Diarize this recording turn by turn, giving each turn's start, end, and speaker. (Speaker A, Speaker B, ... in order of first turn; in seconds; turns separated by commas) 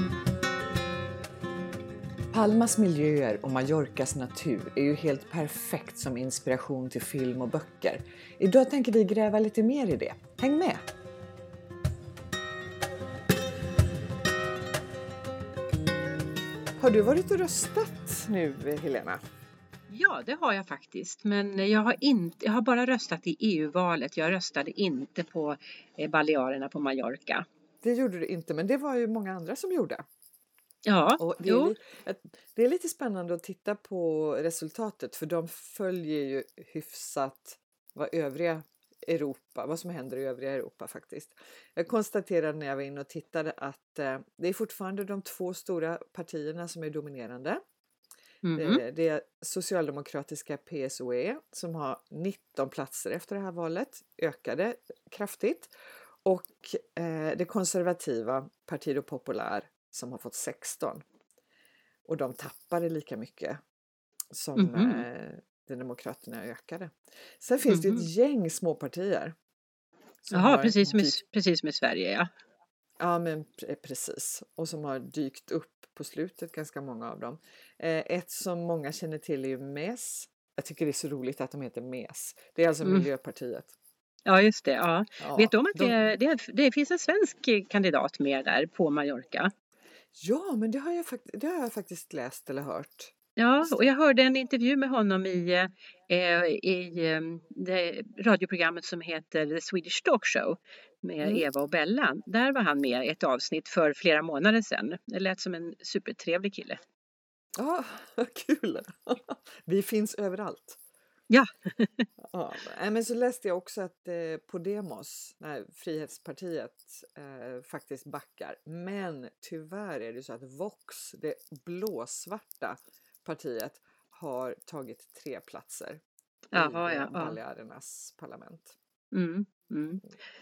Speaker A: 2.3-10.8, Speaker A: 16.8-19.2, Speaker B: 19.9-27.4, Speaker A: 27.8-30.0, Speaker B: 30.8-31.7, Speaker A: 31.2-47.6, Speaker B: 48.4-48.8, Speaker A: 48.5-55.7, Speaker A: 56.2-61.0, Speaker A: 62.0-63.6, Speaker A: 64.3-69.3, Speaker B: 64.6-65.0, Speaker B: 67.7-68.0, Speaker A: 70.2-71.2, Speaker B: 70.3-72.3, Speaker A: 73.0-83.7, Speaker B: 84.2-89.5, Speaker A: 85.2-85.9, Speaker A: 90.2-93.9, Speaker B: 93.4-106.8, Speaker A: 107.6-110.8, Speaker B: 111.3-112.0, Speaker A: 112.2-126.0, Speaker B: 126.5-127.4, Speaker A: 126.5-128.8, Speaker B: 129.1-130.0